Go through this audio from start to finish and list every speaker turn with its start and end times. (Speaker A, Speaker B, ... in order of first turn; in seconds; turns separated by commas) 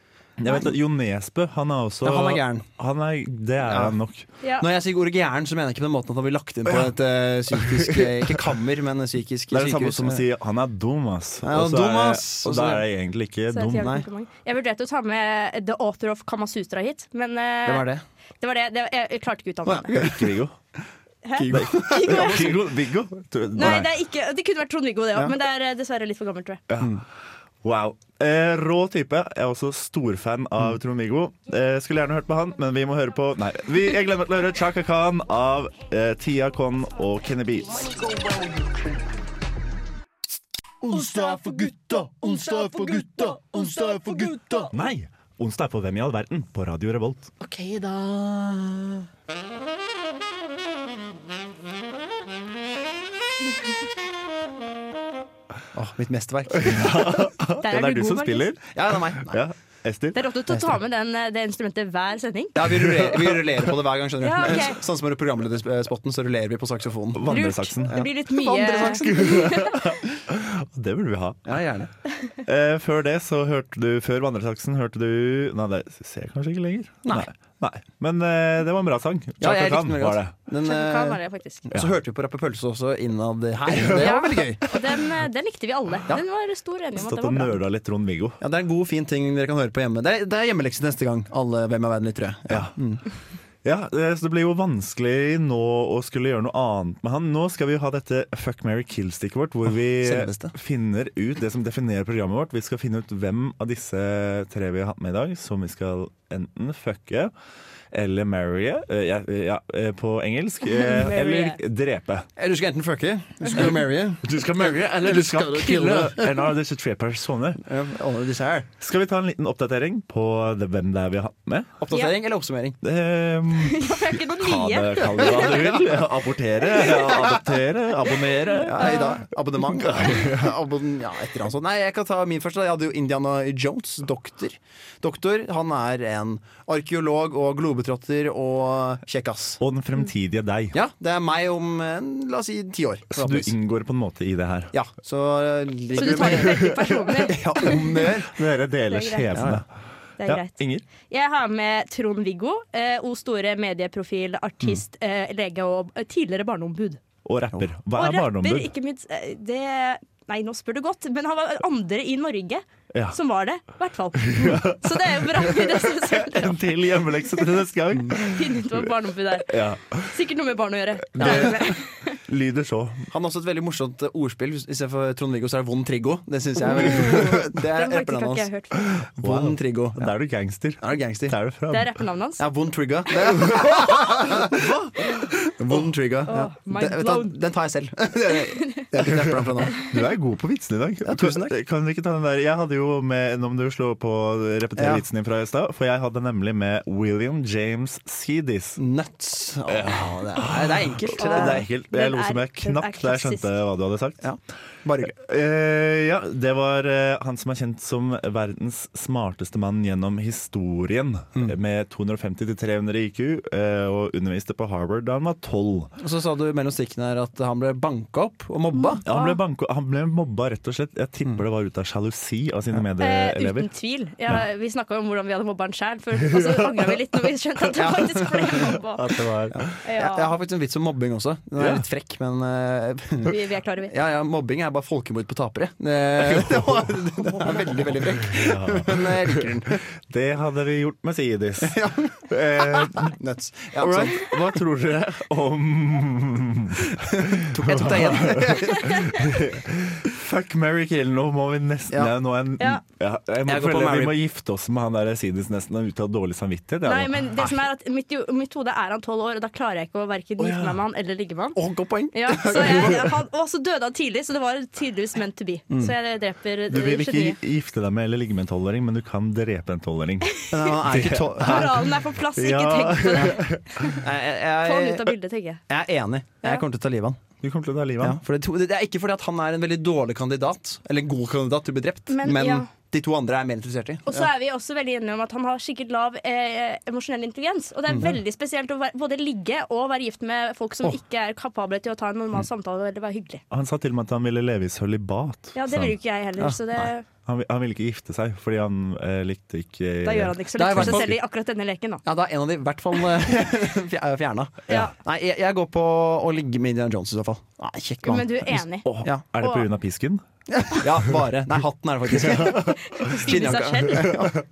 Speaker A: 0.4-4.2, Speaker B: 2.0-2.7, Speaker B: 3.6-4.0, Speaker B: 4.6-10.2, Speaker A: 7.5-8.4, Speaker A: 9.5-14.0, Speaker B: 11.4-12.8, Speaker C: 13.5-17.9, Speaker B: 17.6-18.0, Speaker C: 18.4-20.0, Speaker B: 19.6-20.3, Speaker A: 19.9-20.6, Speaker C: 21.2-22.6, Speaker B: 21.4-22.6, Speaker A: 21.5-23.9, Speaker C: 23.5-26.6, Speaker A: 26.7-27.0, Speaker A: 27.6-38.0, Speaker D: 40.9-44.7, Speaker A: 44.7-47.3, Speaker D: 47.4-49.0, Speaker B: 55.7-57.2, Speaker A: 56.5-60.2, Speaker C: 57.6-58.5, Speaker B: 58.7-59.4, Speaker C: 60.1-62.6, Speaker B: 62.5-67.3, Speaker A: 62.9-63.2, Speaker C: 64.2-64.8, Speaker A: 67.1-68.0, Speaker C: 67.3-69.8, Speaker B: 67.8-69.5, Speaker A: 69.0-71.6, Speaker B: 71.5-71.9, Speaker A: 72.4-80.3, Speaker B: 79.4-84.7, Speaker C: 80.6-81.7, Speaker A: 83.7-84.2, Speaker C: 84.0-87.6, Speaker A: 86.9-88.4, Speaker B: 88.4-93.0, Speaker A: 92.5-92.7, Speaker A: 93.6-107.3, Speaker B: 100.0-100.5, Speaker A: 107.9-112.3, Speaker C: 110.6-111.6, Speaker B: 112.4-116.5, Speaker A: 113.5-117.6, Speaker B: 117.6-118.7, Speaker A: 118.8-121.8, Speaker B: 121.8-122.8, Speaker A: 122.8-129.1, Speaker C: 123.5-125.8, Speaker B: 126.8-127.4, Speaker B: 128.6-139.6, Speaker C: 128.8-129.2, Speaker A: 129.7-130.5, Speaker A: 139.6-140.8, Speaker B: 140.7-143.5, Speaker A: 143.1-144.7, Speaker B: 144.7-148.4, Speaker C: 145.9-147.8, Speaker A: 146.0-147.2, Speaker A: 148.2-149.7, Speaker C: 148.9-149.4, Speaker B: 149.3-149.6, Speaker C: 150.2-157.0, Speaker A: 150.2-150.8, Speaker A: 157.2-158.7, Speaker C: 157.9-166.7, Speaker A: 164.2-170.1, Speaker C: 168.1-172.2, Speaker A: 171.1-171.7, Speaker B: 171.2-171.6, Speaker A: 172.2-173.1, Speaker B: 173.1-180.1, Speaker C: 176.6-178.8, Speaker A: 179.0-182.0, Speaker B: 180.8-181.3, Speaker C: 181.7-182.4, Speaker B: 182.4-189.8, Speaker C: 186.3-187.3, Speaker C: 188.5-188.9, Speaker A: 189.8-198.8, Speaker B: 191.0-191.6, Speaker B: 194.8-195.0, Speaker B: 198.8-201.7, Speaker A: 199.7-204.2, Speaker C: 201.2-203.5, Speaker B: 204.2-205.1, Speaker A: 205.0-215.9, Speaker B: 216.0-219.0, Speaker C: 218.7-219.4, Speaker A: 219.0-223.7, Speaker C: 223.0-229.0, Speaker A: 226.3-226.8, Speaker B: 227.8-228.7, Speaker A: 228.5-229.6, Speaker B: 229.5-233.4, Speaker C: 229.8-230.3, Speaker A: 231.6-231.8, Speaker C: 233.2-233.9, Speaker B: 233.9-239.8, Speaker A: 236.2-237.0, Speaker A: 238.2-243.1, Speaker B: 241.6-244.4, Speaker A: 243.8-257.6, Speaker B: 247.0-249.5, Speaker B: 253.5-254.2, Speaker C: 256.8-261.6, Speaker A: 260.4-260.8, Speaker B: 261.5-263.2, Speaker C: 262.1-267.4, Speaker A: 266.7-274.0, Speaker C: 270.3-270.7, Speaker B: 270.5-271.9, Speaker C: 271.4-274.0, Speaker B: 274.0-275.1, Speaker C: 274.6-275.6, Speaker B: 275.7-277.2, Speaker A: 277.4-278.2, Speaker B: 278.0-284.3, Speaker C: 282.1-282.7, Speaker C: 284.1-293.4, Speaker A: 293.5-295.9, Speaker C: 295.5-297.0, Speaker B: 296.4-296.9, Speaker A: 297.2-301.2, Speaker C: 300.0-302.0, Speaker B: 300.6-301.1, Speaker B: 302.1-309.2, Speaker C: 304.7-304.9, Speaker C: 308.0-308.9, Speaker A: 308.8-310.2, Speaker C: 309.4-309.6, Speaker B: 310.5-314.4, Speaker A: 312.2-312.9, Speaker C: 312.6-314.3